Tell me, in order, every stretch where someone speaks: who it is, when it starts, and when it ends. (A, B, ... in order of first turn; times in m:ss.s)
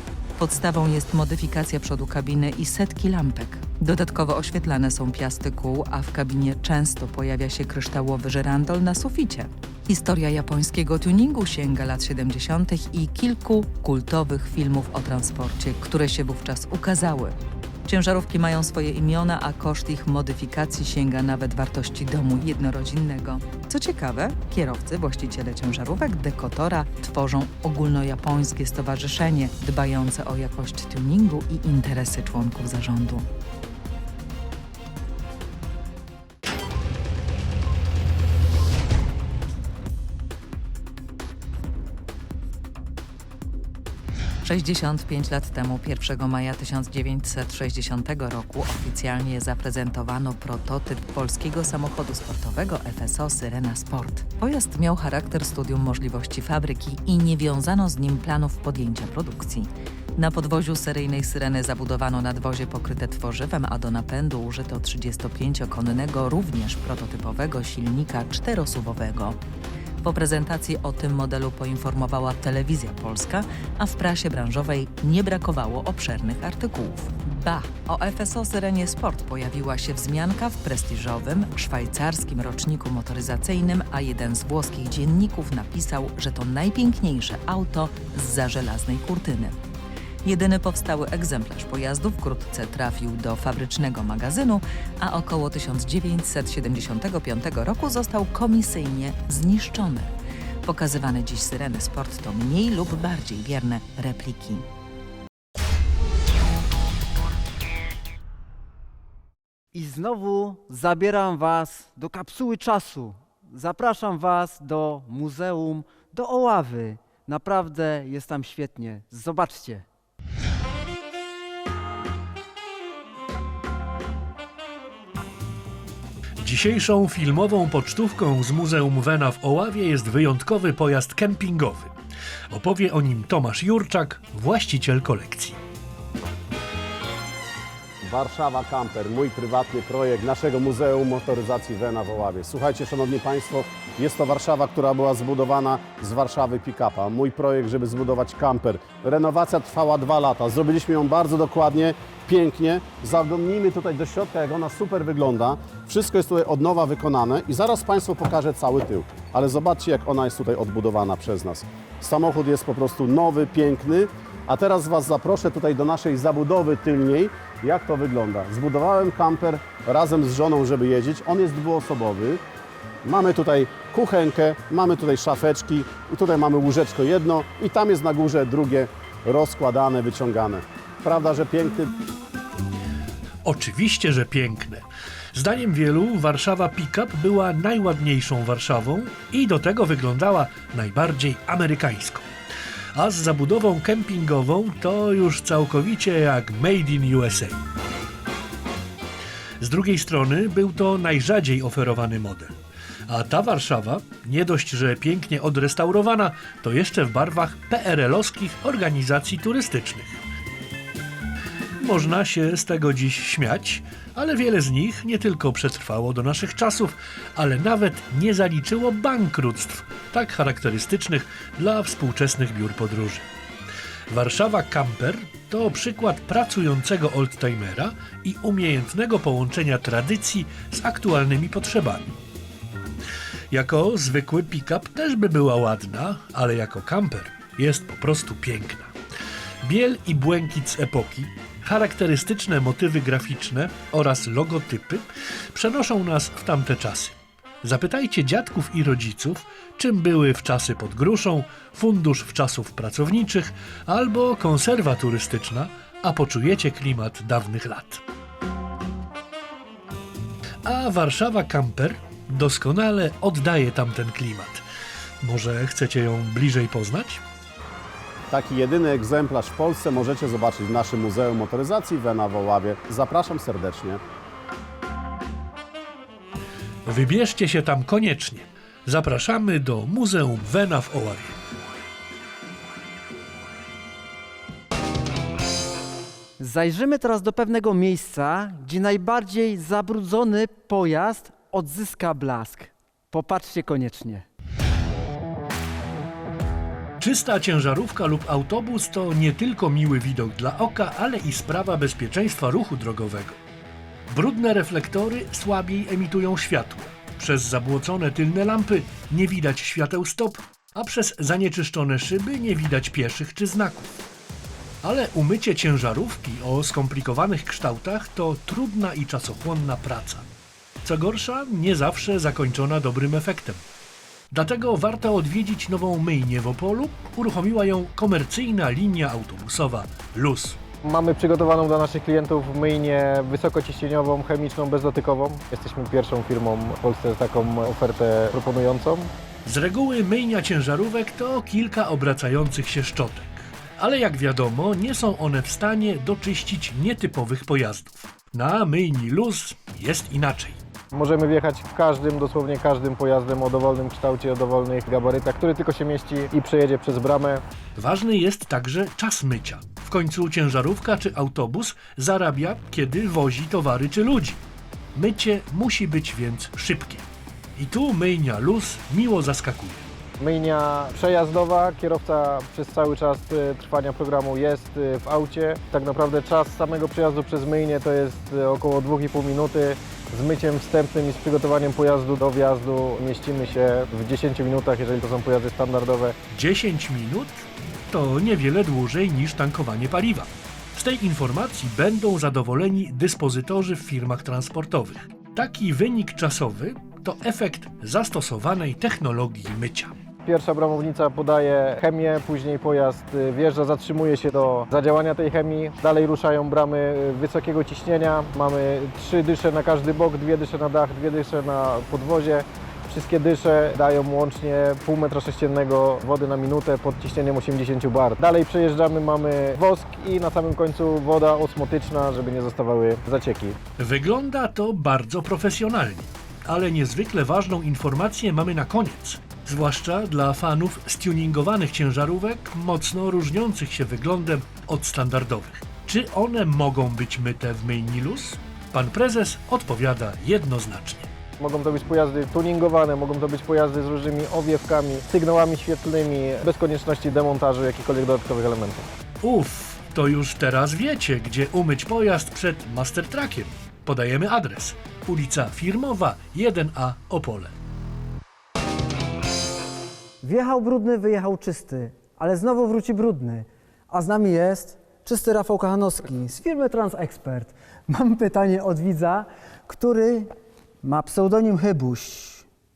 0:00.4-0:33.2 A
0:44.4-1:09.4 A
1:10.0-1:29.6 A
1:30.2-1:40.1 A
1:40.6-1:44.7 A
1:49.7-1:59.8 B
2:06.4-2:11.9 C
2:12.5-2:15.6 C
2:18.0-2:52.4 D
2:53.0-3:01.9 D
3:03.4-3:12.2 C
3:12.9-3:17.6 C
3:19.6-3:22.6 C
3:23.1-3:30.2 C
3:31.8-3:43.2 C
3:44.1-3:52.1 C
3:53.5-3:58.9 C
3:59.6-4:18.0 C
4:20.6-4:24.6 C
4:25.2-4:27.2 C
4:28.3-4:34.0 D
4:36.8-4:41.4 C
4:46.4-4:54.2 B
4:57.0-5:03.4 C
5:04.1-5:13.9 C
5:14.8-5:20.2 C
5:20.8-5:23.6 C
5:24.3-5:30.6 C
5:30.8-5:39.1 E
5:39.4-5:50.6 C
5:50.9-5:57.4 E
5:57.8-6:04.4 C
6:04.9-6:09.9 C
6:10.2-6:26.2 E
6:26.3-6:39.9 C
6:40.2-7:03.6 E
7:03.8-7:21.1 C
7:21.4-7:28.9 E
7:29.2-7:37.5 C
7:40.2-7:50.3 B
7:50.8-7:52.4 B